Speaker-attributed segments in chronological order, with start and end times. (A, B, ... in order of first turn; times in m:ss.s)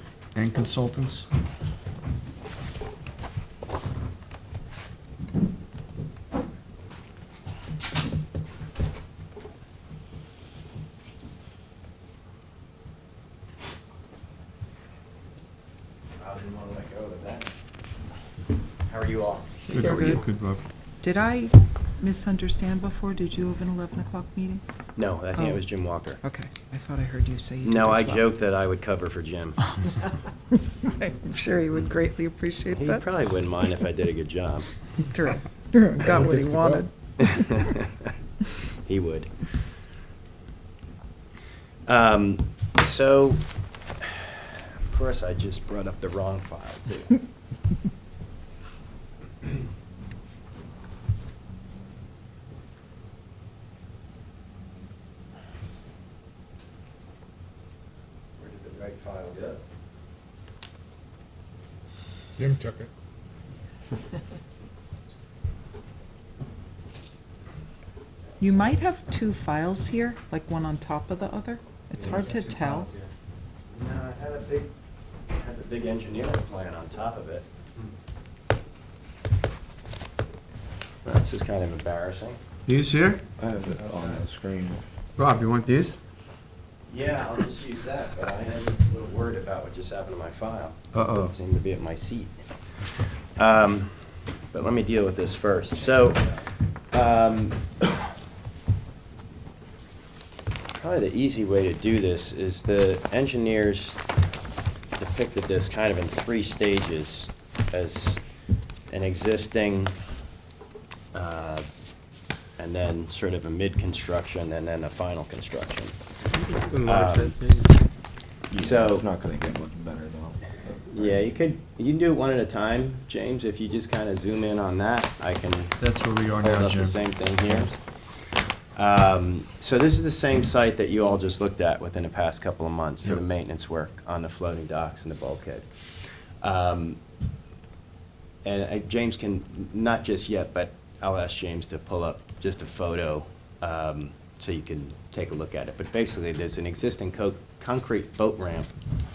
0:00.4-0:01.3 A
0:16.2-0:17.5 B
0:18.9-0:19.9 B
0:19.7-0:20.6 A
0:19.8-0:20.2 C
0:19.8-0:20.2 D
0:21.0-0:24.6 D
0:25.0-0:26.2 B
0:25.4-0:25.6 D
0:26.2-0:28.3 D
0:27.6-0:29.6 B
0:30.5-0:33.0 D
0:32.7-0:34.7 B
0:35.0-0:37.6 D
0:36.0-0:36.9 C
0:37.2-0:38.1 B
0:38.8-0:39.5 B
0:41.9-0:43.4 B
0:44.0-0:47.2 B
0:58.4-0:59.6 B
1:02.4-1:02.9 C
1:08.4-1:12.9 D
1:12.0-1:13.1 B
1:13.7-1:14.7 B
1:15.3-1:17.5 B
1:21.0-1:22.4 B
1:22.7-1:23.3 A
1:23.4-1:24.8 E
1:25.2-1:26.0 A
1:26.9-1:32.4 B
1:30.9-1:31.3 A
1:33.4-1:36.4 B
1:36.9-1:37.8 B
1:40.7-1:44.0 B
1:45.0-1:48.2 B
1:48.9-1:50.0 B
1:51.1-1:51.7 B
1:52.6-1:56.0 B
1:56.5-1:57.7 A
1:56.8-1:57.4 B
1:58.5-1:59.1 B
1:58.5-2:00.5 E
2:00.9-2:05.8 B
2:05.8-2:07.7 A
2:06.4-2:07.8 B
2:08.8-2:15.7 B
2:16.4-2:17.0 B
2:18.4-2:28.7 B